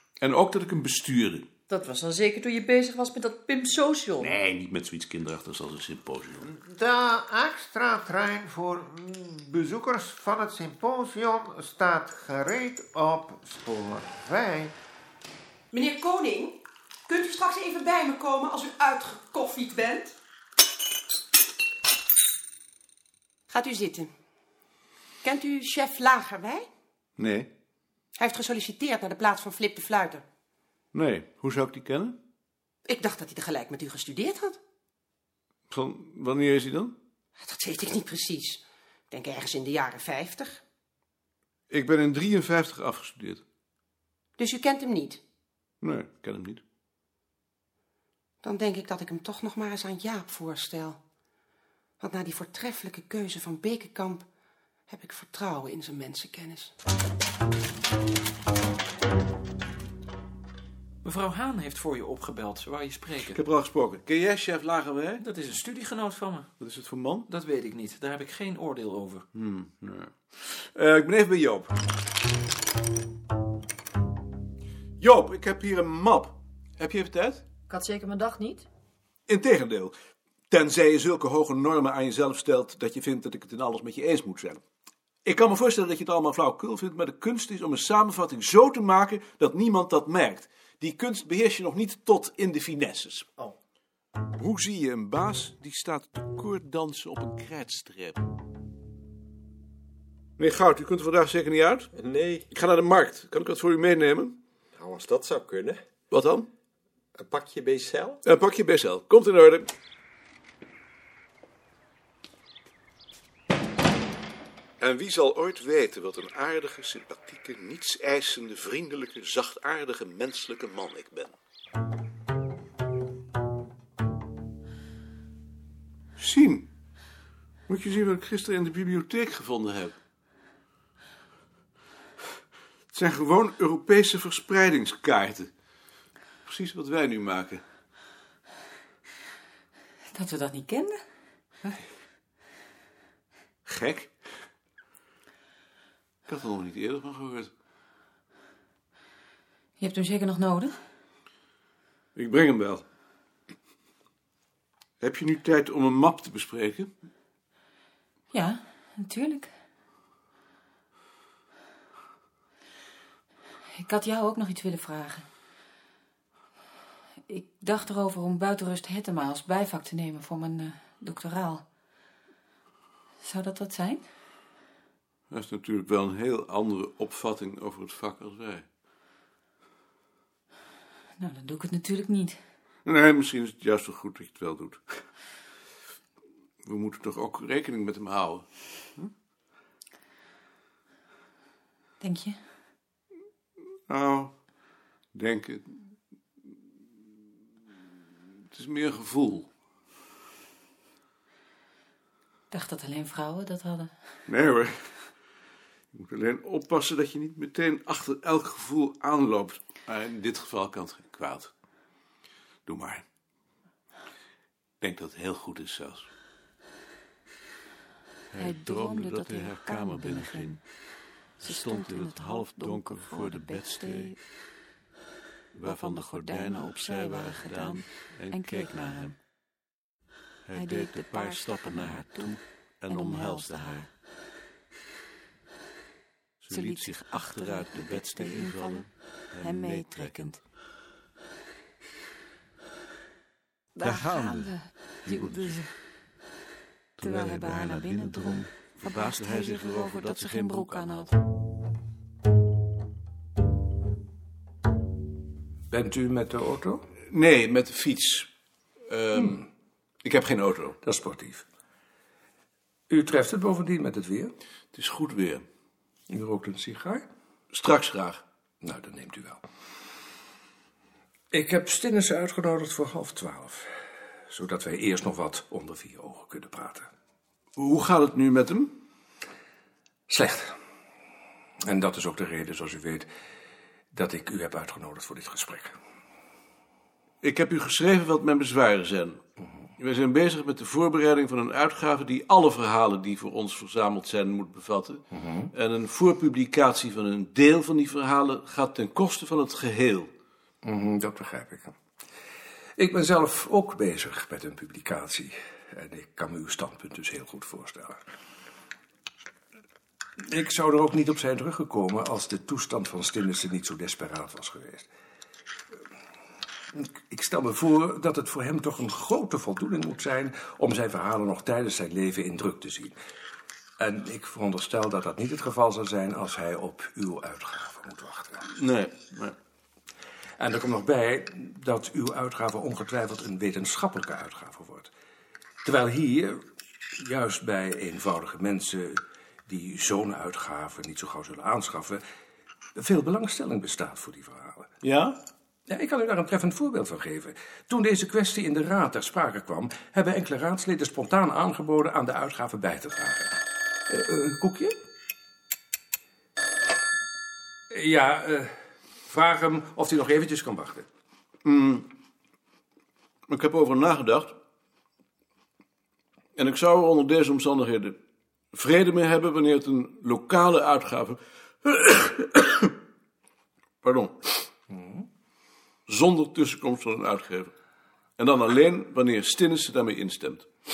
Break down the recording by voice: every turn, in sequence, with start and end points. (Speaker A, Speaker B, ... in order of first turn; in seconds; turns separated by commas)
Speaker A: 0.2-1.4, Speaker B: 1.7-4.4, Speaker A: 4.2-6.5, Speaker C: 6.5-14.7, Speaker D: 15.7-20.1, Speaker D: 23.5-24.1, Speaker D: 25.2-26.7, Speaker A: 27.2-27.5, Speaker D: 28.1-30.2, Speaker A: 30.9-32.2, Speaker D: 32.9-34.6, Speaker A: 35.7-36.9, Speaker D: 37.4-40.6, Speaker A: 41.7-43.4, Speaker D: 44.4-45.2, Speaker A: 45.8-46.6, Speaker D: 48.4-51.0, Speaker D: 52.0-54.2, Speaker D: 54.9-56.7, Speaker E: 61.0-63.4, Speaker A: 63.2-65.2, Speaker E: 65.2-66.5, Speaker A: 66.6-67.3, Speaker E: 67.3-69.2, Speaker A: 69.3-71.7, Speaker A: 75.0-77.4, Speaker B: 77.7-78.7, Speaker A: 79.3-79.9, Speaker A: 80.5-84.6, Speaker A: 85.2-93.3, Speaker A: 94.4-98.2, Speaker A: 100.4-101.9, Speaker F: 101.9-102.4, Speaker A: 102.5-104.4, Speaker F: 104.8-105.8, Speaker A: 106.1-106.5, Speaker F: 107.2-108.2, Speaker A: 108.2-109.7, Speaker A: 114.8-121.3, Speaker A: 126.2-126.7, Speaker A: 127.7-129.9, Speaker A: 132.9-135.5, Speaker A: 136.4-137.6, Speaker G: 140.1-141.0, Speaker A: 143.7-144.1, Speaker A: 146.3-147.5, Speaker G: 149.8-150.8, Speaker A: 152.2-152.8, Speaker A: 155.0-156.9, Speaker G: 158.3-159.5, Speaker G: 163.8-165.2, Speaker G: 167.3-171.6, Speaker G: 173.2-174.1, Speaker A: 175.3-178.6, Speaker G: 181.2-182.4, Speaker A: 182.8-184.8, Speaker A: 186.6-189.1, Speaker G: 192.0-192.4, Speaker A: 193.9-194.3, Speaker A: 195.1-195.7, Speaker A: 198.5-199.5, Speaker G: 202.5-203.9, Speaker A: 204.3-204.7, Speaker A: 205.9-211.5, Speaker A: 212.7-213.0, Speaker A: 214.8-216.1, Speaker A: 218.3-220.6, Speaker G: 218.3-220.6, Speaker A: 221.4-224.2, Speaker G: 221.4-224.2, Speaker A: 225.6-229.2, Speaker G: 225.6-229.1, Speaker A: 230.5-233.9, Speaker G: 230.5-233.9, Speaker A: 236.4-240.3, Speaker G: 236.5-238.9, Speaker G: 239.4-240.4, Speaker G: 243.8-245.7, Speaker A: 243.8-245.6, Speaker A: 247.0-251.1, Speaker G: 247.0-251.1, Speaker H: 255.7-256.8, Speaker A: 257.1-258.3, Speaker A: 258.9-259.4, Speaker A: 260.0-260.8, Speaker H: 260.8-261.4, Speaker H: 262.9-264.3, Speaker A: 264.7-265.4, Speaker H: 266.1-267.0, Speaker A: 267.5-268.2, Speaker H: 268.6-269.4, Speaker H: 271.3-273.6, Speaker H: 274.3-276.9, Speaker A: 277.6-278.7, Speaker H: 280.1-280.5, Speaker H: 281.6-283.1, Speaker H: 283.9-285.8, Speaker A: 287.2-289.2, Speaker A: 289.8-300.1, Speaker H: 295.1-295.5, Speaker H: 300.6-301.7, Speaker H: 302.8-308.0, Speaker H: 310.2-314.9, Speaker H: 316.8-322.9, Speaker H: 323.8-328.5, Speaker A: 328.5-329.4, Speaker H: 330.4-334.9, Speaker H: 335.6-336.4, Speaker H: 337.0-342.0, Speaker H: 342.8-344.7, Speaker A: 344.8-345.2, Speaker H: 345.7-354.8, Speaker H: 357.7-358.5, Speaker H: 359.1-360.9, Speaker A: 361.4-361.8, Speaker A: 363.3-364.3, Speaker A: 366.4-367.9, Speaker A: 368.5-372.7, Speaker A: 373.8-374.3, Speaker A: 375.9-377.5, Speaker A: 378.2-380.5